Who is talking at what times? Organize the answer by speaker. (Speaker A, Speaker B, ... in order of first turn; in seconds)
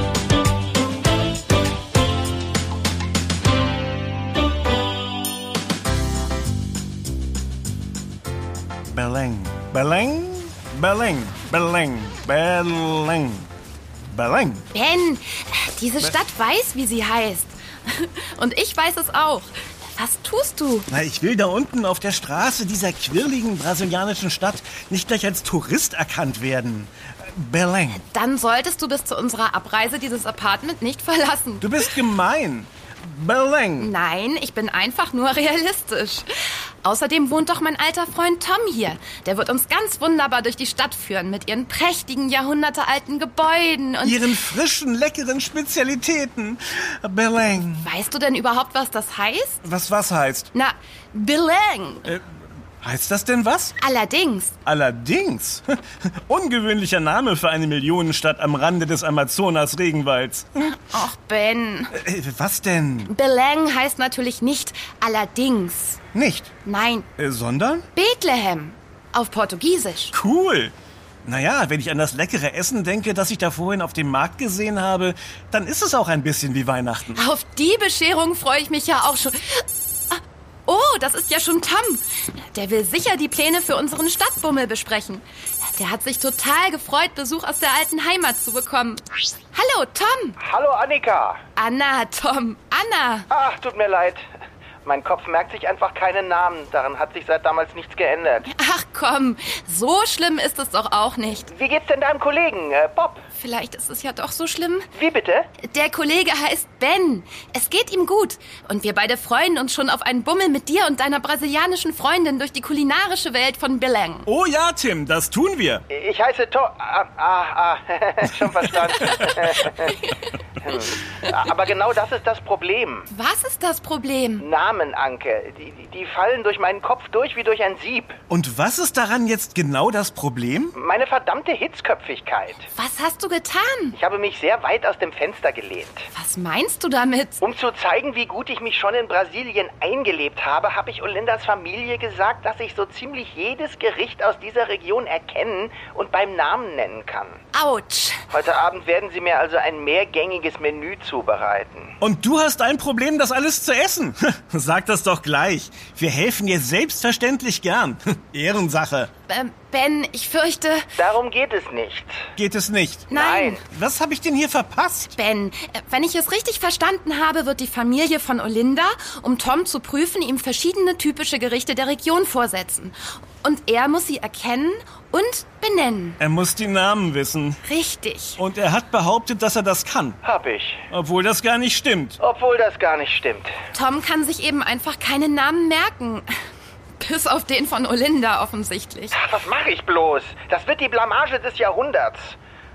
Speaker A: 8.9-13.5, 14.1-14.7, 20.9-28.0, 31.6-34.0, 44.0-47.9, 49.6-50.5, 52.8-53.8, 54.6-55.6, 56.3-60.8, 61.9-63.1, 66.1-66.5, 67.2-67.9, 70.1-70.7, 71.2-77.2, 114.3-115.8, 128.3-130.8, 152.0-159.1, 162.4-163.1, 163.7-165.2, 176.2-177.6, 178.4-180.2, 180.9-182.2
Speaker B: 14.7-20.9, 28.0-31.8, 33.8-44.3, 47.8-49.6, 50.5-52.1, 53.8-54.5, 60.6-62.0, 63.1-66.0, 66.7-67.1, 68.0-70.1, 77.1-85.2, 85.8-90.4, 91.6-93.3, 98.5-101.5, 103.3-104.9, 105.6-114.3, 119.0-120.3, 123.1-124.5, 132.7-134.0, 136.1-137.4, 147.5-148.2, 159.3-160.9, 163.1-163.6, 165.2-176.2, 177.7-178.4, 183.7-186.3, 187.0-189.2
Speaker C: 90.4-91.4, 93.3-94.2, 94.8-98.5, 101.5-103.2, 105.0-105.5, 115.9-120.0, 120.6-123.1, 124.4-128.2, 130.8-132.7, 133.9-136.1, 137.4-147.4, 148.3-151.9, 161.0-162.3, 163.1-163.6, 180.2-180.9, 182.2-183.5, 189.1-192.4